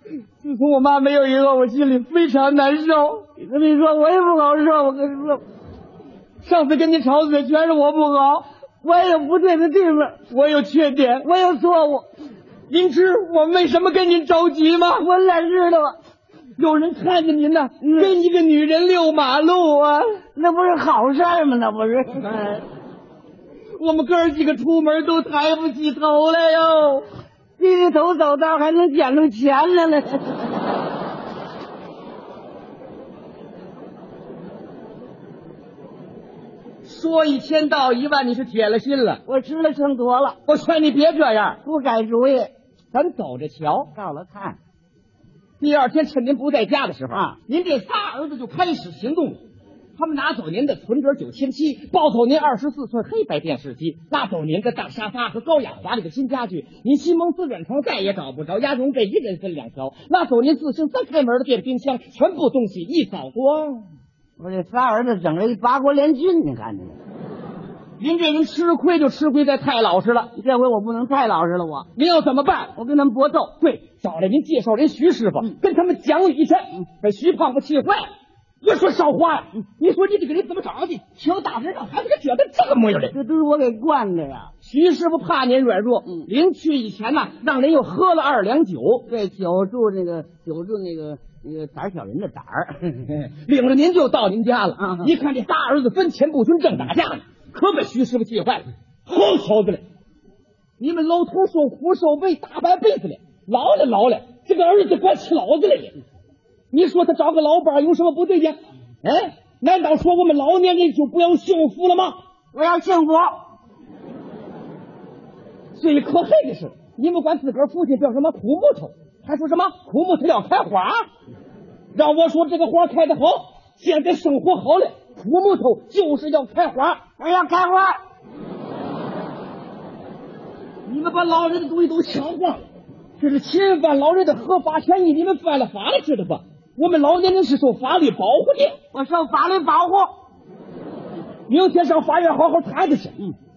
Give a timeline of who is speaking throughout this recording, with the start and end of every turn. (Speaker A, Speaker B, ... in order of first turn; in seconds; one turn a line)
Speaker A: 0.4-3.2
Speaker B: 3.4-5.4
Speaker A: 6.4-8.4
Speaker B: 8.8-10.2
Speaker A: 10.3-11.2
Speaker B: 11.2-12.1
Speaker A: 12.7-15.0
Speaker B: 14.9-16.0
Speaker A: 16.6-20.2
Speaker B: 17.8-18.1
Speaker B: 20.3-22.6
Speaker A: 23.8-27.1
Speaker B: 27.6-30.4
Speaker A: 36.8-39.2
Speaker B: 39.3-40.4
Speaker A: 40.5-41.6
Speaker B: 41.6-42.5
Speaker A: 42.9-43.9
Speaker B: 43.9-44.6
Speaker A: 45.6-49.4
Speaker B: 47.1-47.4
Speaker A: 50.0-63.8
Speaker B: 64.4-67.0
Speaker A: 68.0-70.3
Speaker B: 70.3-71.9
Speaker A: 72.0-72.7
Speaker B: 72.8-73.5
Speaker A: 73.6-78.0
Speaker A: 78.6-83.1
Speaker B: 83.1-84.5
Speaker A: 84.6-89.0
Speaker B: 89.1-93.0
Speaker A: 93.1-99.8
Speaker B: 94.8-95.1
Speaker A: 100.8-105.9
Speaker A: 106.7-112.2
Speaker B: 112.5-113.4
Speaker A: 115.7-121.0
Speaker A: 121.9-127.0
Speaker B: 127.2-128.0
Speaker A: 130.8-132.6
Speaker A: 133.2-138.7
Speaker B: 138.9-140.1
Speaker A: 141.5-143.1